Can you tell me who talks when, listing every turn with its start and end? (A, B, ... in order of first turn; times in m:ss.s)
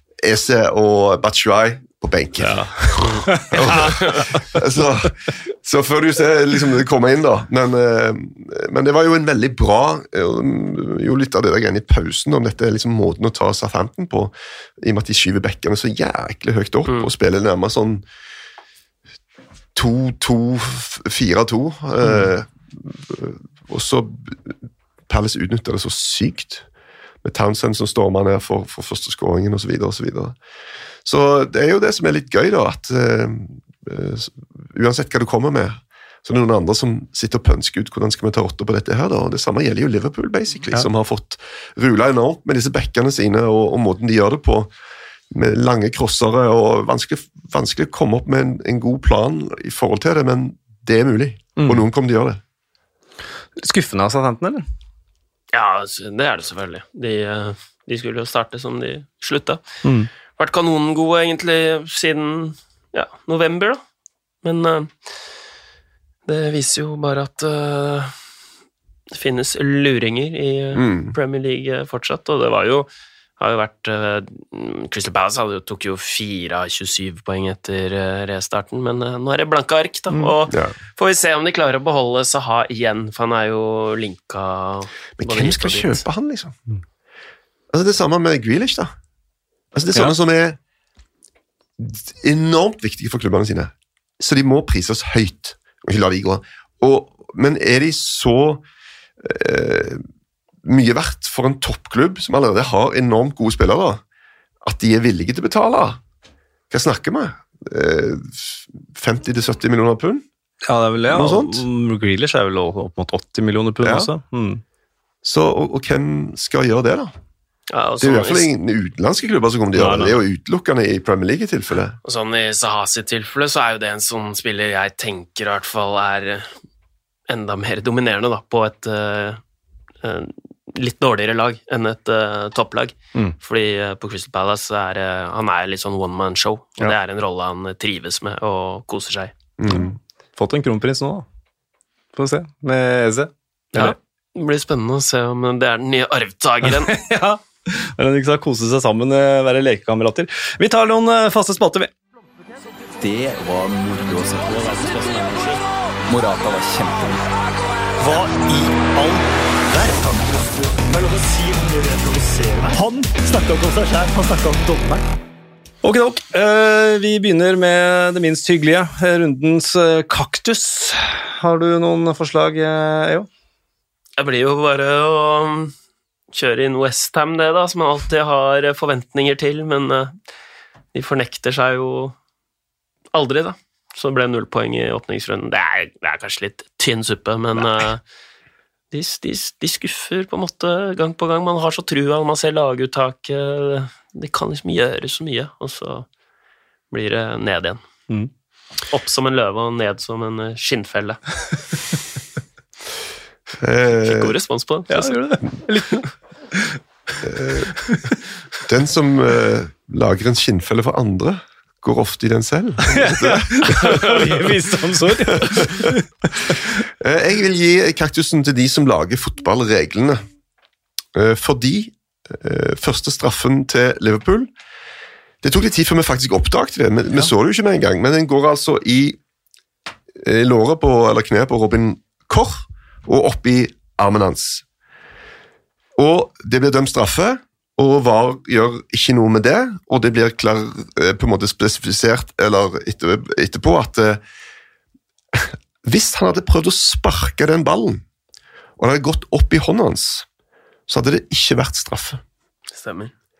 0:00.2-0:18.0 A
0:02.4-0:04.5 B
0:19.7-0:24.6 A
0:25.1-0:26.6 A
0:27.2-0:30.4 A
0:31.0-0:44.7 A
0:45.3-0:52.4 A
0:51.6-0:51.8 B
0:53.6-0:54.6 B
0:55.5-0:59.6 C
0:59.8-1:00.1 B
1:00.4-1:03.8 C
1:04.4-1:04.9 C
1:06.3-1:08.1 C
1:09.1-1:26.0 C
1:10.7-1:11.1 A
1:25.2-1:26.6 A
1:27.7-1:28.9 A
1:29.7-1:30.6 A
1:31.8-1:38.6 A
1:39.2-1:40.0 A
1:40.6-1:44.0 A
1:44.6-1:46.0 A
1:46.7-1:50.2 A
1:50.6-1:54.6 B
1:51.1-1:51.6 A
1:53.8-1:54.1 A
1:55.2-1:57.1 A
1:57.7-1:58.5 C
1:58.0-2:02.0 A
1:59.8-2:00.2 B
2:02.0-2:06.5 C
2:07.3-2:09.4 C
2:10.0-2:19.3 C
2:19.6-2:19.9 A
2:19.7-2:21.2 B
2:22.1-2:24.0 B
2:23.7-2:27.0 C
2:26.6-2:31.9 B
2:33.0-2:35.2 D
2:36.1-2:37.3 D
2:38.0-2:45.0 E
2:45.8-2:53.3 B
2:54.2-2:55.7 C
2:56.3-3:00.1 C
3:00.9-3:02.1 C
3:03.1-3:08.0 C
3:08.9-3:16.1 C
3:16.9-3:17.8 C
3:18.9-3:21.2 C
3:23.6-3:24.3 A
3:24.0-3:25.2 C
3:24.9-3:26.8 B
3:27.2-3:27.7 A
3:27.8-3:28.1 B
3:28.6-3:34.1 A
3:32.8-3:36.7 B
3:35.3-3:35.9 A
3:37.0-3:40.2 A
3:41.1-3:44.5 A
3:45.4-3:49.2 A
3:50.2-3:54.6 A
3:56.0-4:04.2 A
4:05.3-4:08.0 A
4:08.8-4:10.3 A
4:10.9-4:12.2 A
4:12.7-4:13.1 C